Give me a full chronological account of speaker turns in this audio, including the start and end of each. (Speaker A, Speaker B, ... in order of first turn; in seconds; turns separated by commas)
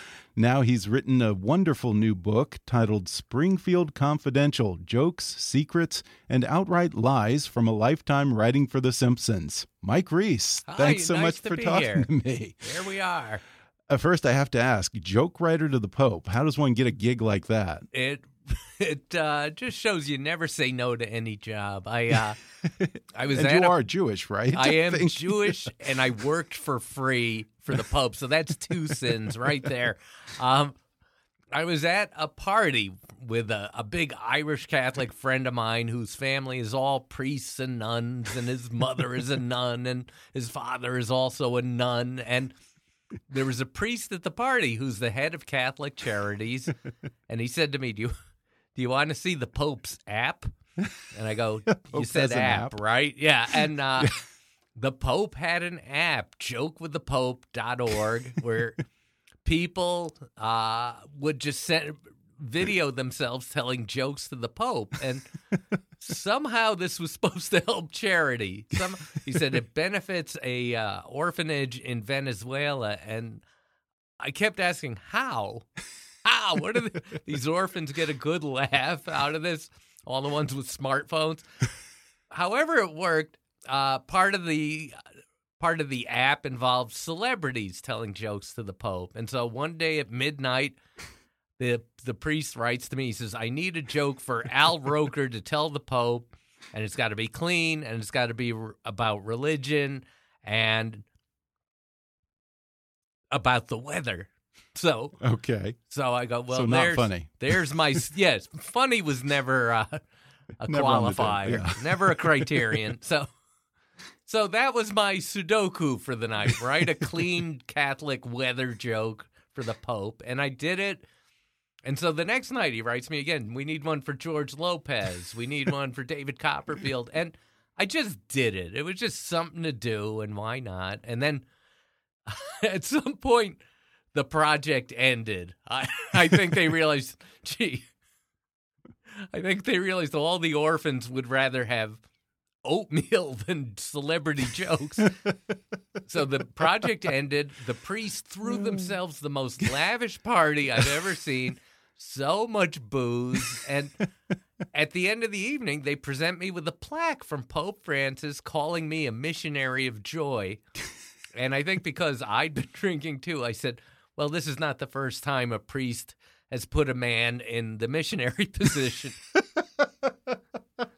Speaker A: 0.4-12.6, Speaker B: 10.7-12.1, Speaker B: 12.6-13.4, Speaker A: 13.9-17.9, Speaker B: 17.9-22.4, Speaker A: 22.6-25.7, Speaker B: 23.1-23.8, Speaker B: 24.5-30.8, Speaker B: 31.5-42.5, Speaker B: 43.3-46.7, Speaker B: 47.3-48.1, Speaker B: 48.8-50.5, Speaker B: 51.1-54.2, Speaker A: 51.8-52.8, Speaker B: 54.8-58.8, Speaker B: 59.4-65.3, Speaker B: 66.0-73.4, Speaker B: 74.2-75.7, Speaker B: 76.2-81.4, Speaker B: 82.3-85.0, Speaker B: 85.6-90.8, Speaker B: 91.6-101.0, Speaker B: 103.3-105.2, Speaker A: 105.2-105.8, Speaker B: 105.9-110.0, Speaker A: 106.5-107.5, Speaker B: 110.6-113.3, Speaker A: 110.7-112.7, Speaker B: 114.2-121.0, Speaker B: 121.8-131.4, Speaker B: 132.3-133.6, Speaker B: 134.1-137.9, Speaker B: 139.3-142.0, Speaker B: 142.6-145.2, Speaker B: 146.1-154.1, Speaker B: 154.7-160.6, Speaker B: 161.3-169.2